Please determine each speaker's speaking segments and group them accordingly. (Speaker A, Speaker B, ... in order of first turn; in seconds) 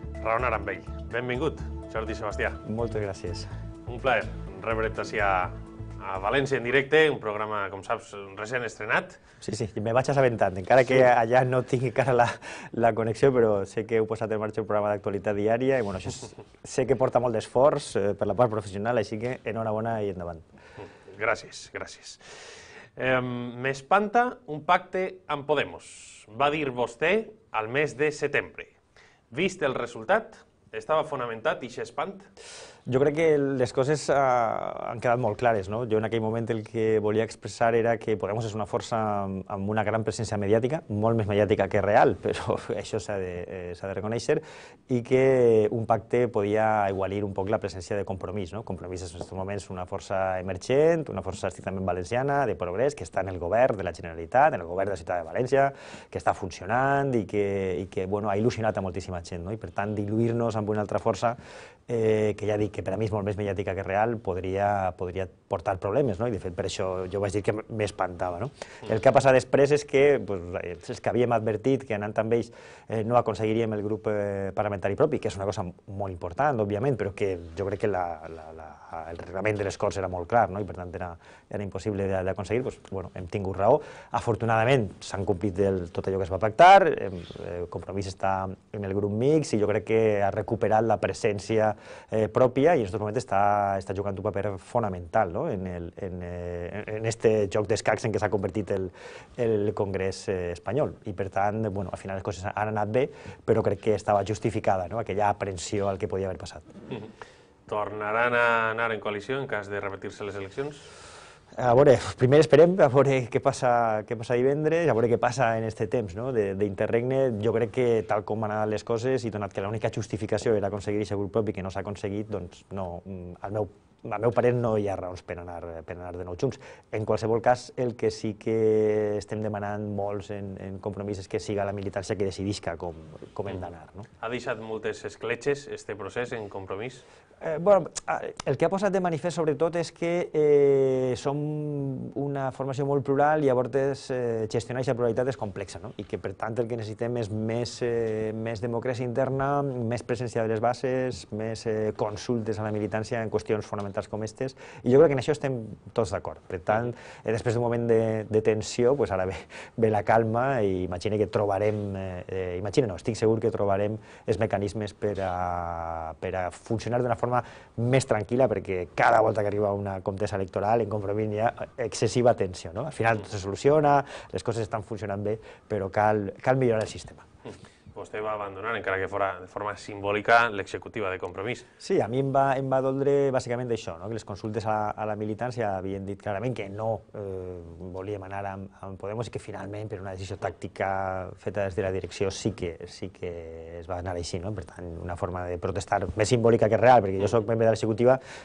Speaker A: 0.2-2.6, 3.9-9.2, 21.0-22.2, 22.9-28.7, 29.3-32.3, 107.7-110.8, 134.2-137.0, 177.5-181.7
Speaker B: 2.6-3.5, 9.4-20.4, 32.9-106.7, 111.6-134.1, 137.4-177.2, 181.8-198.2